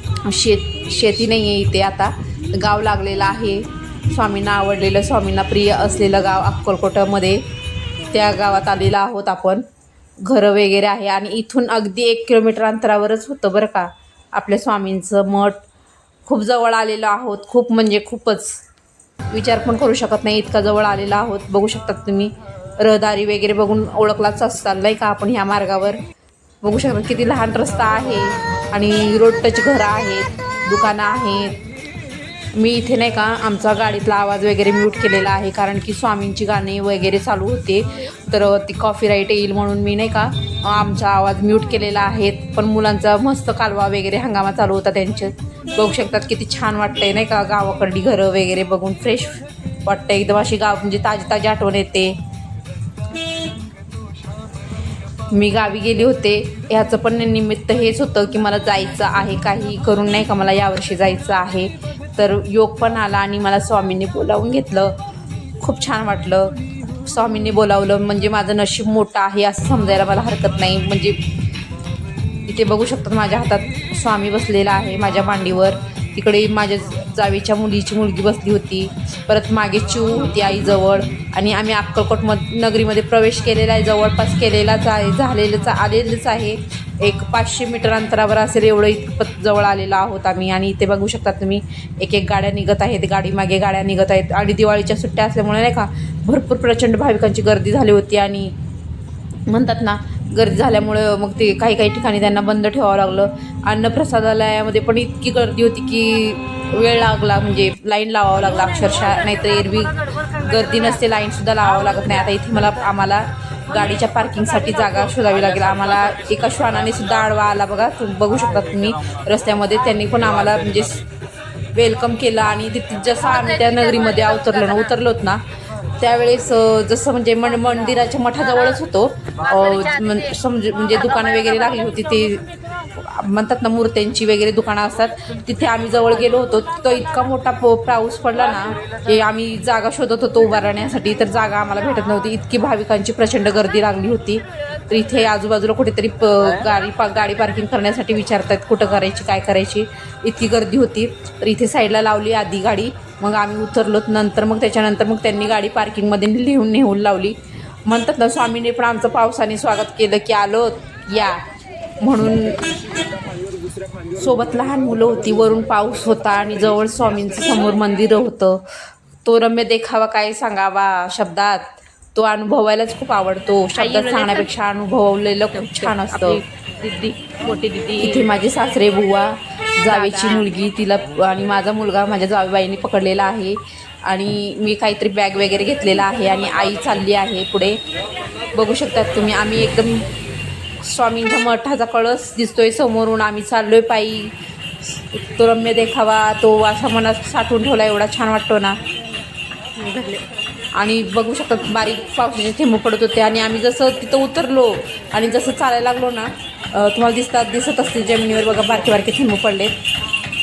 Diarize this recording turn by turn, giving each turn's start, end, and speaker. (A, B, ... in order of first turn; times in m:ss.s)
0:00.2-0:07.4 A
0:08.1-0:09.6 A
0:10.2-0:15.6 A
0:16.3-0:18.6 A
0:19.3-0:26.0 A
0:26.6-0:31.6 A
0:32.6-0:52.2 A
0:55.3-1:05.0 A
1:05.6-1:11.2 A
1:12.5-1:38.5 A
1:39.5-2:01.1 A
2:01.8-2:05.4 A
2:03.3-2:04.9 B
2:06.0-2:41.4 A
2:42.0-2:42.6 A
2:44.2-2:48.7 A
2:49.2-2:56.4 A
2:53.8-2:54.5 B
2:55.6-2:58.3 B
2:58.0-3:07.8 A
2:59.9-3:00.4 B
3:08.5-3:10.1 A
3:10.8-3:14.3 A
3:15.0-3:18.8 A
3:19.8-3:20.2 B
3:20.8-3:29.8 A